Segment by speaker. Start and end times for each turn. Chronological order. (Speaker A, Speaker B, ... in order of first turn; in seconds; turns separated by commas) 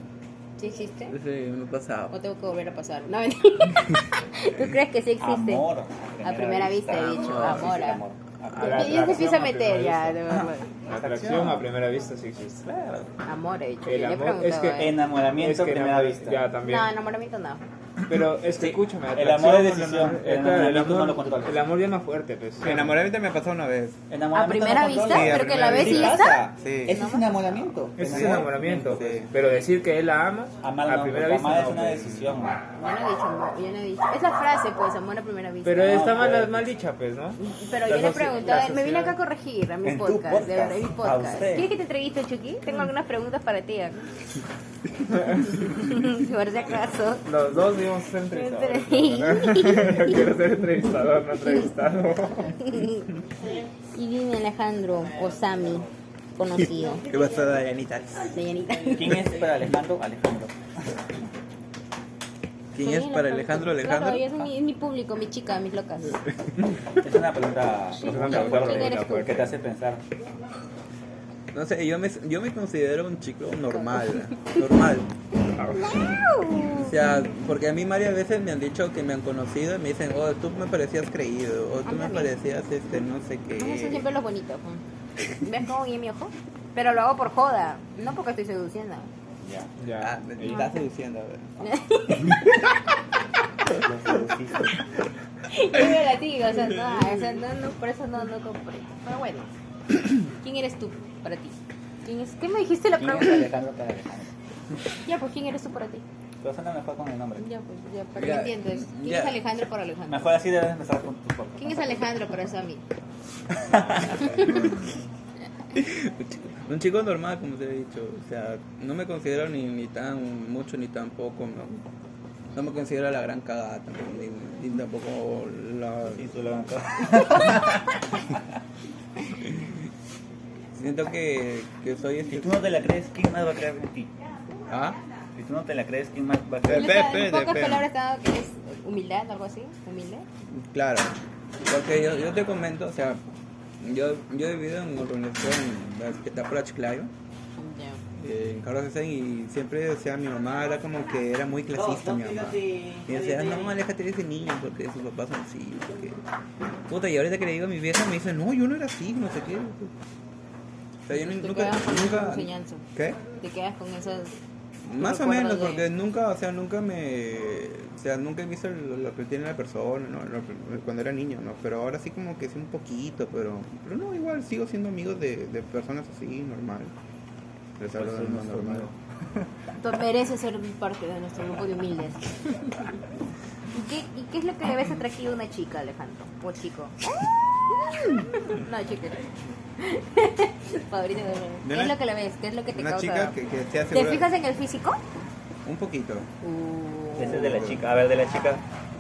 Speaker A: 0.6-1.2, Speaker B: 1.1-2.2, Speaker A: 2.1-5.7, Speaker C: 5.2-9.2, Speaker A: 6.2-8.0, Speaker B: 7.1-7.7, Speaker D: 8.5-10.2, Speaker A: 8.6-10.7, Speaker D: 10.9-12.6, Speaker C: 10.9-11.7, Speaker C: 12.6-13.1, Speaker A: 13.2-15.0, Speaker D: 13.9-16.9, Speaker C: 14.8-16.4, Speaker A: 16.6-17.6, Speaker D: 18.1-22.9, Speaker C: 18.6-21.6, Speaker B: 22.6-24.0, Speaker C: 24.1-29.2, Speaker A: 24.3-27.6, Speaker B: 25.0-27.0, Speaker D: 28.0-32.1, Speaker B: 28.0-29.3, Speaker C: 30.6-32.6, Speaker B: 32.0-32.5, Speaker A: 32.8-36.3, Speaker D: 35.6-37.4, Speaker C: 35.8-36.6, Speaker A: 37.4-44.0, Speaker C: 37.9-39.1, Speaker C: 39.8-41.7, Speaker A: 45.5-47.3, Speaker D: 47.2-52.7, Speaker A: 48.3-50.3, Speaker A: 51.4-51.7, Speaker A: 52.6-53.1, Speaker A: 53.9-57.0, Speaker B: 57.0-58.4, Speaker A: 58.3-59.3, Speaker C: 58.9-60.5, Speaker B: 62.7-64.5, Speaker A: 62.8-66.2, Speaker C: 67.0-70.0, Speaker D: 68.0-69.5, Speaker A: 68.0-69.5, Speaker B: 71.5-75.1, Speaker D: 75.6-76.1, Speaker A: 75.8-77.0, Speaker B: 76.7-84.0, Speaker A: 81.8-82.3, Speaker A: 83.6-84.8, Speaker A: 85.3-89.1, Speaker C: 89.4-89.7, Speaker D: 89.8-90.7, Speaker B: 90.0-91.5, Speaker A: 91.6-92.9, Speaker C: 93.8-94.8, Speaker A: 95.5-99.5, Speaker A: 100.4-103.5, Speaker C: 103.0-104.3, Speaker A: 105.0-106.0, Speaker C: 106.4-107.5, Speaker A: 107.4-110.4, Speaker B: 108.2-109.5, Speaker C: 110.1-112.0, Speaker A: 111.6-112.8, Speaker C: 113.5-114.7, Speaker B: 113.9-114.9, Speaker A: 114.1-114.7, Speaker B: 115.7-121.8, Speaker B: 122.5-126.3, Speaker C: 126.0-128.3, Speaker B: 129.3-129.9, Speaker B: 130.7-132.8, Speaker C: 132.3-134.1, Speaker B: 134.7-135.0, Speaker C: 135.3-137.1, Speaker A: 136.7-140.3, Speaker B: 136.7-137.9, Speaker B: 140.5-143.2, Speaker B: 143.8-147.1, Speaker A: 147.6-148.0, Speaker B: 148.2-156.2, Speaker C: 151.7-153.8, Speaker B: 156.9-159.9, Speaker B: 161.1-163.2, Speaker A: 161.1-162.9, Speaker A: 163.4-164.4, Speaker B: 164.8-176.9, Speaker A: 165.0-165.8, Speaker B: 177.8-178.9, Speaker C: 177.9-179.0, Speaker A: 179.7-183.0, Speaker A: 183.7-187.0, Speaker A: 187.9-193.3, Speaker B: 191.6-192.0, Speaker B: 192.7-194.3, Speaker A: 193.9-195.0, Speaker B: 195.7-196.3, Speaker A: 196.4-197.6, Speaker C: 197.2-198.6, Speaker B: 197.2-197.9